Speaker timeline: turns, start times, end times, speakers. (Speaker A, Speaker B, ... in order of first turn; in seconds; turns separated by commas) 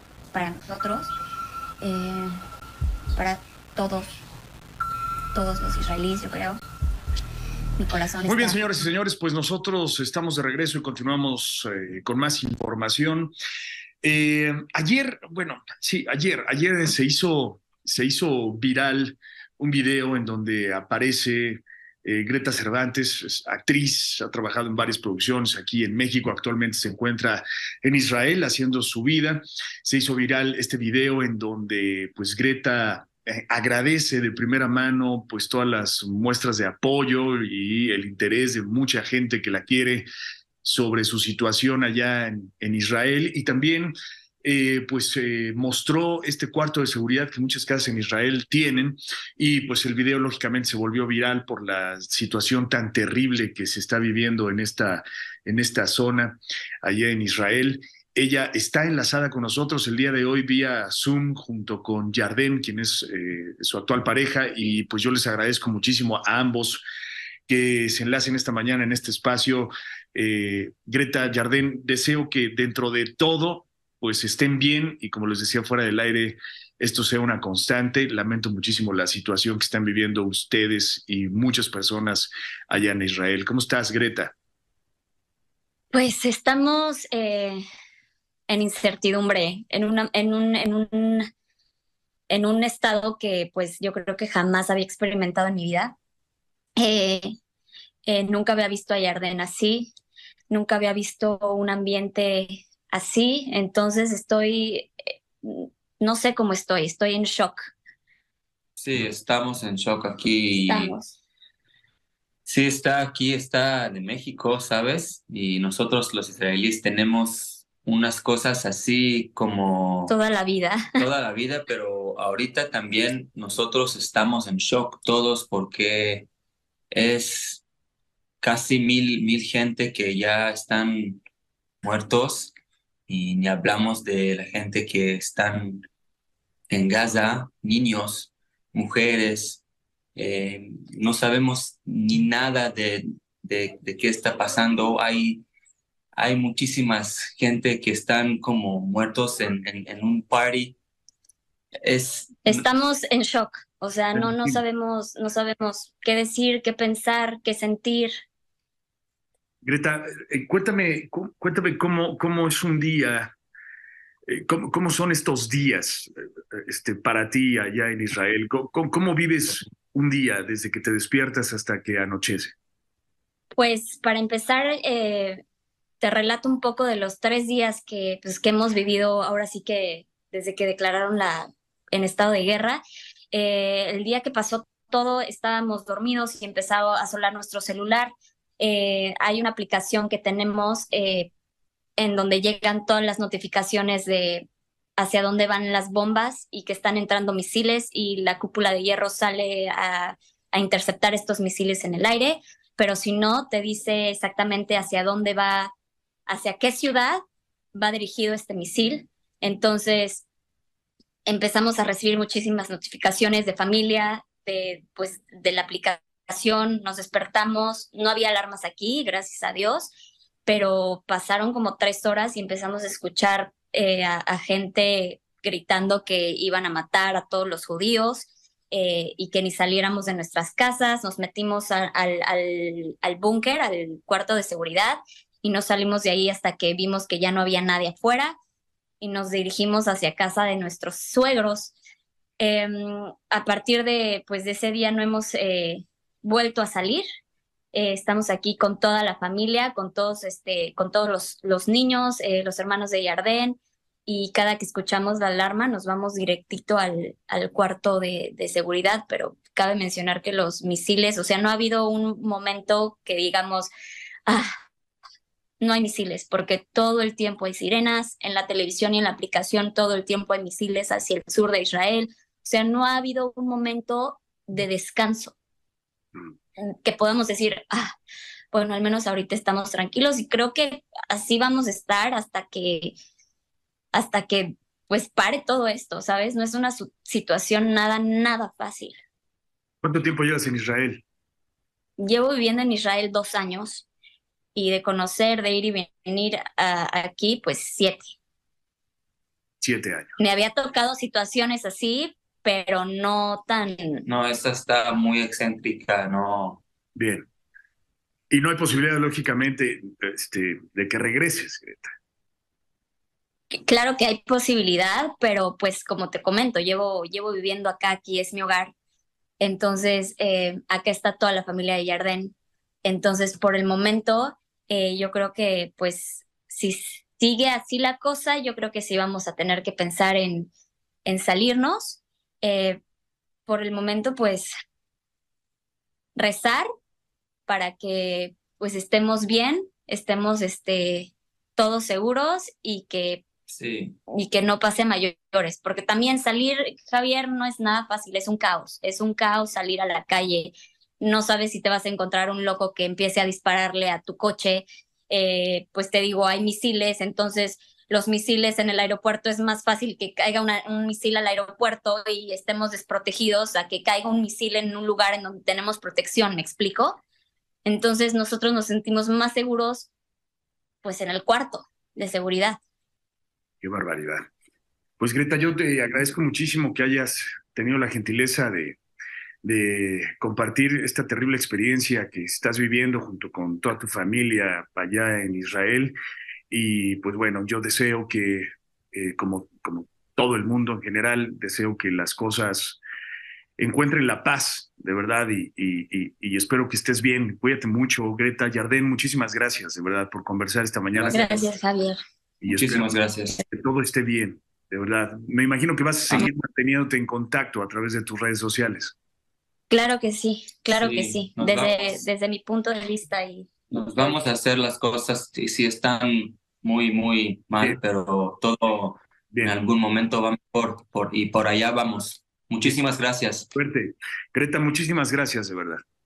Speaker A: 0.3-1.1, Speaker A: 1.8-2.4, Speaker A: 3.2-4.1, Speaker A: 5.3-6.6, Speaker A: 7.8-8.6, Speaker B: 8.2-13.3, Speaker B: 14.0-40.1, Speaker B: 40.6-66.8, Speaker B: 67.5-84.3, Speaker A: 85.9-87.6, Speaker A: 88.5-91.3, Speaker A: 92.3-95.9, Speaker A: 96.8-97.3, Speaker A: 98.1-99.9, Speaker A: 100.5-107.6, Speaker C: 108.8-111.0, Speaker A: 110.7-111.2, Speaker C: 112.5-120.1, Speaker A: 120.1-120.8, Speaker C: 121.0-126.3, Speaker C: 126.9-127.6, Speaker C: 128.4-131.2, Speaker C: 131.8-132.6, Speaker C: 133.1-135.9, Speaker C: 136.7-139.6, Speaker C: 140.2-145.4, Speaker C: 146.2-150.8, Speaker C: 151.8-152.6, Speaker A: 152.5-158.1, Speaker B: 154.1-154.6, Speaker B: 159.6-163.3, Speaker B: 164.3-172.5, Speaker A: 173.6-175.4, Speaker A: 176.0-182.8, Speaker A: 183.3-191.3, Speaker A: 192.0-205.7, Speaker A: 206.3-207.2, Speaker A: 207.7-210.2, Speaker A: 211.3-219.9, Speaker A: 220.5-238.3, Speaker A: 239.0-241.8, Speaker A: 242.4-247.0, Speaker A: 247.7-263.7, Speaker A: 264.3-264.5, Speaker A: 265.6-275.4, Speaker A: 276.6-277.9, Speaker A: 278.5-282.9, Speaker A: 283.9-289.0, Speaker B: 289.8-291.0, Speaker A: 292.0-293.9, Speaker A: 294.6-298.1, Speaker B: 299.6-300.2, Speaker A: 300.2-304.0, Speaker C: 304.1-306.6, Speaker B: 306.9-307.3, Speaker B: 308.3-311.9, Speaker A: 313.5-318.7, Speaker A: 319.4-330.5, Speaker A: 331.1-332.8, Speaker A: 333.5-334.5, Speaker A: 336.1-336.6, Speaker A: 337.5-343.2, Speaker C: 343.5-344.0, Speaker A: 344.1-367.0, Speaker A: 367.6-369.9, Speaker A: 370.8-372.6, Speaker B: 373.6-374.3, Speaker B: 375.0-378.8, Speaker B: 379.4-385.9, Speaker B: 386.5-392.8, Speaker B: 393.6-401.5, Speaker C: 400.9-401.5, Speaker A: 401.1-402.0, Speaker B: 402.4-408.9, Speaker C: 402.5-403.4, Speaker A: 409.7-414.3, Speaker C: 410.8-412.1, Speaker C: 413.7-423.5, Speaker B: 419.3-419.6, Speaker B: 423.5-425.8